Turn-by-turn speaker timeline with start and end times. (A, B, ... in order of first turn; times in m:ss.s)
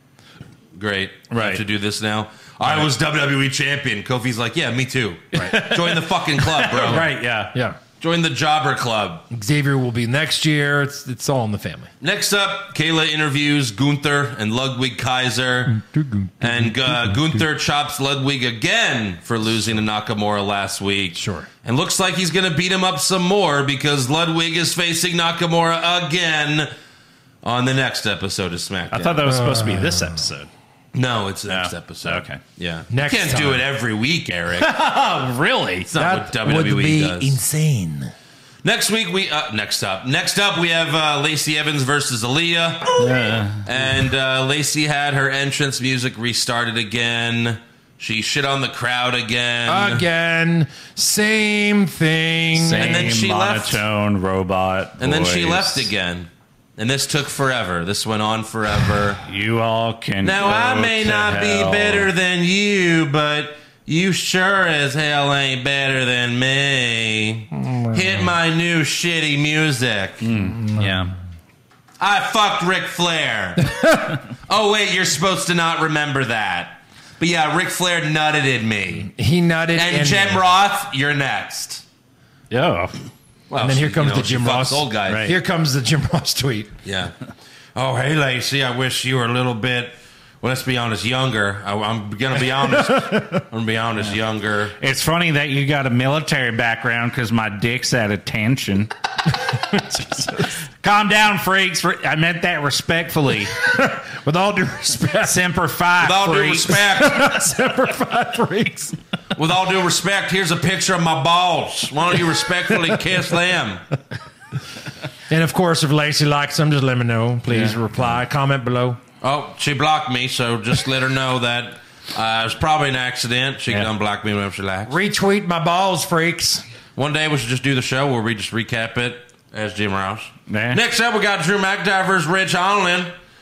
0:00.7-0:07.1 A
0:01.3-0:01.6 B
0:05.4-0:07.5 B
0:08.0-0:09.2 A
0:09.3-0:11.9 C
0:12.0-0:15.8 A
0:15.7-0:17.4 C
0:16.4-0:26.7 A
0:21.1-0:21.5 C
0:27.4-0:29.2 A
0:28.9-0:30.5 B
0:29.2-0:30.3 C
0:30.9-0:34.8 A
0:31.5-0:32.4 B
0:32.9-0:33.6 C
0:34.6-0:35.9 B
0:35.9-0:37.4 A
0:35.9-0:38.1 C
0:38.6-0:43.1 A
0:43.0-0:43.7 B
0:43.6-0:50.0 A
0:49.7-0:53.1 C
0:52.5-0:55.9 B
0:52.8-0:53.8 A
0:55.0-0:59.2 A
0:59.2-1:02.1 B
1:00.2-1:10.3 A
1:07.6-1:08.0 C
1:10.2-1:11.1 B
1:10.5-1:10.9 C
1:12.0-1:13.8 A
1:13.6-1:14.2 C
1:14.3-1:19.1 A
1:19.1-1:20.4 C
1:19.7-1:21.8 A
1:22.5-1:22.9 B
1:23.5-1:25.3 A
1:23.6-1:26.7 C
1:25.0-1:25.4 B
1:26.8-1:27.1 A
1:27.7-1:34.8 A
1:34.8-1:38.9 B
1:39.7-1:40.5 C
1:40.8-1:43.5 B
1:43.6-1:45.4 C
1:45.2-1:46.8 B
1:46.0-1:47.4 A
1:46.9-1:48.9 C
1:49.4-1:53.8 A
1:55.3-1:59.0 C
1:57.5-1:57.8 B
1:59.2-2:05.0 A
2:04.9-2:06.6 C
2:07.0-2:13.1 A
2:10.5-2:10.8 B